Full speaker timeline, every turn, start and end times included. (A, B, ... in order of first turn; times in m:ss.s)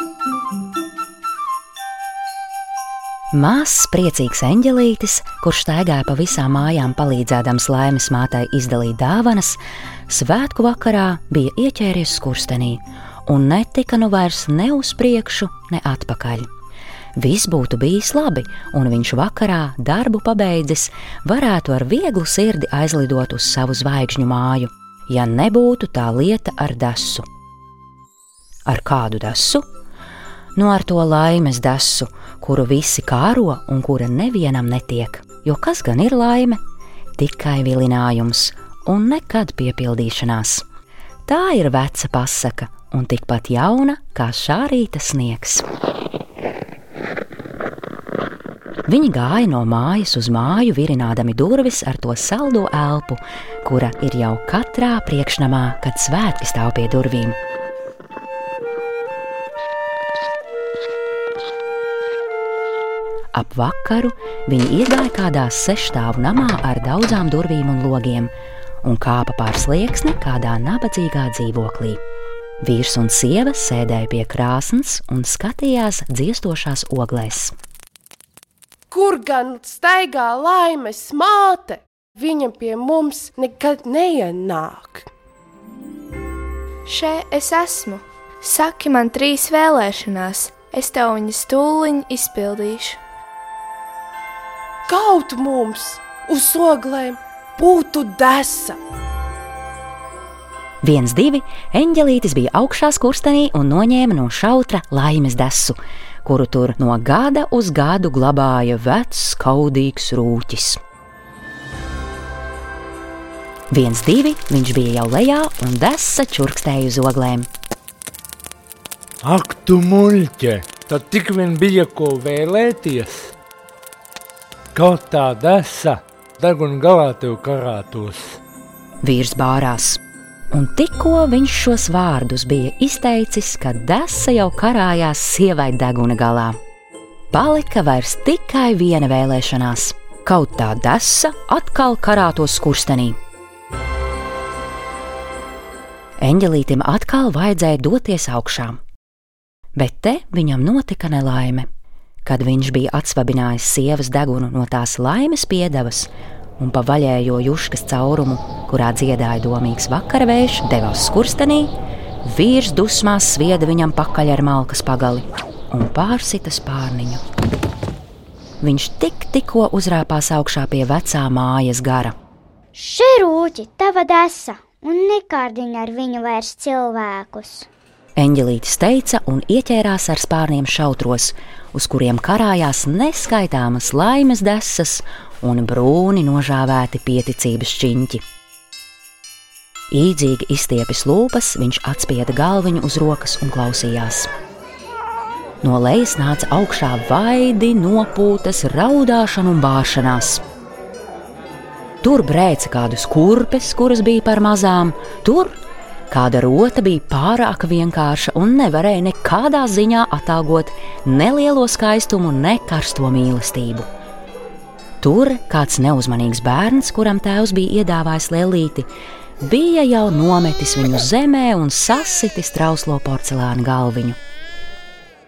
0:03.3-0:16.5 A
0:17.2-0:27.3 A
0:28.7-0:29.6 A
0:30.6-0:36.6 A
0:37.2-0:40.6 A
0:41.3-0:45.6 A
0:48.9-0:57.4 A
1:03.3-1:08.3 A
1:08.8-1:12.0 A
1:12.6-1:17.6 A
1:18.9-1:25.1 B
1:26.9-1:33.0 C
1:34.9-1:38.8 B
1:40.8-1:50.8 A
1:53.7-1:57.5 A
1:59.2-2:03.3 D
2:04.8-2:08.4 D
2:09.0-2:10.0 A
2:10.5-2:16.6 A
2:17.3-2:23.2 A
2:26.2-2:28.8 A
2:29.8-2:31.7 A
2:32.2-2:41.7 A
2:42.2-2:47.2 A
2:48.6-2:52.1 A
2:52.7-2:57.7 E
2:58.2-3:08.2 A
3:09.9-3:14.3 A
3:15.6-3:20.4 A
3:22.0-3:25.6 A
3:26.1-3:33.8 A
3:35.0-3:38.9 A
3:39.4-3:44.2 A